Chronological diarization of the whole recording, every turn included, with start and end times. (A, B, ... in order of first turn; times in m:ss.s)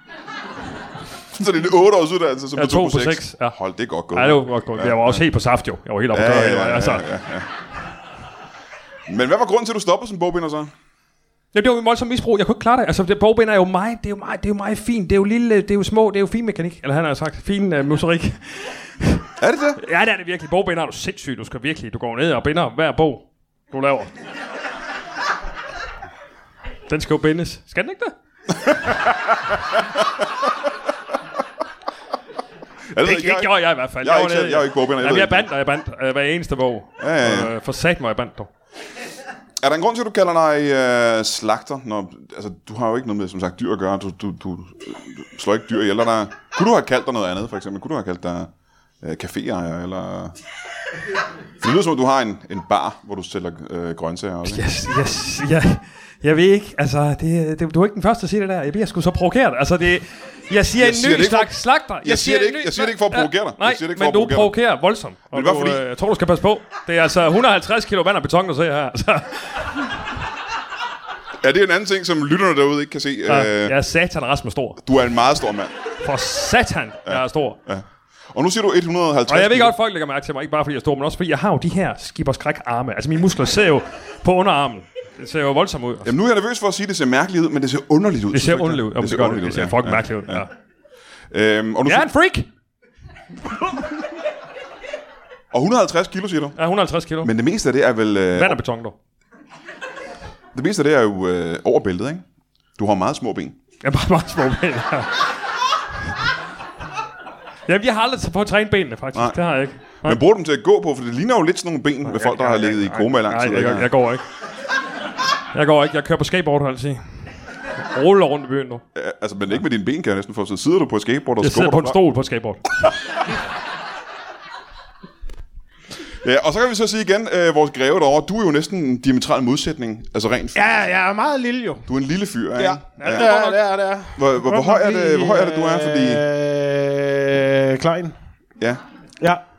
0:01.3-0:05.2 A
0:02.5-0:03.6 B
0:04.1-0:07.1 B
0:06.1-0:07.5 A
0:09.1-0:10.7 A
0:11.5-0:24.1 B
0:19.4-0:19.8 A
0:26.9-0:28.1 B
0:32.9-0:35.5 A
0:33.0-0:38.5 B
0:37.0-0:37.5 A
0:39.6-0:48.5 A
0:49.0-0:50.4 A
0:51.6-0:54.6 A
0:54.4-1:09.9 B
1:00.8-1:04.5 A
1:05.3-1:05.8 A
1:11.4-1:13.8 A
1:13.3-1:14.8 B
1:14.8-1:15.7 A
1:16.0-1:17.6 B
1:17.0-1:19.8 A
1:19.3-1:26.1 B
1:26.0-1:30.4 A
1:28.3-1:30.5 B
1:31.3-1:32.1 A
1:31.8-1:32.5 B
1:35.5-1:36.6 A
1:36.6-1:37.3 B
1:37.2-1:38.6 A
1:38.3-1:39.0 B
1:40.5-1:42.2 A
1:42.8-1:43.6 A
1:43.8-1:45.3 B
1:47.7-1:50.2 B
1:50.0-1:53.9 A
1:52.0-1:54.2 B
1:55.5-1:57.3 B
1:57.9-1:58.8 B
1:58.9-2:02.0 A
2:01.4-2:02.7 B
2:06.2-2:10.8 A
2:10.5-2:11.8 C
2:11.9-2:13.3 A
2:12.6-2:18.1 C
2:13.0-2:13.6 B
2:14.2-2:16.2 A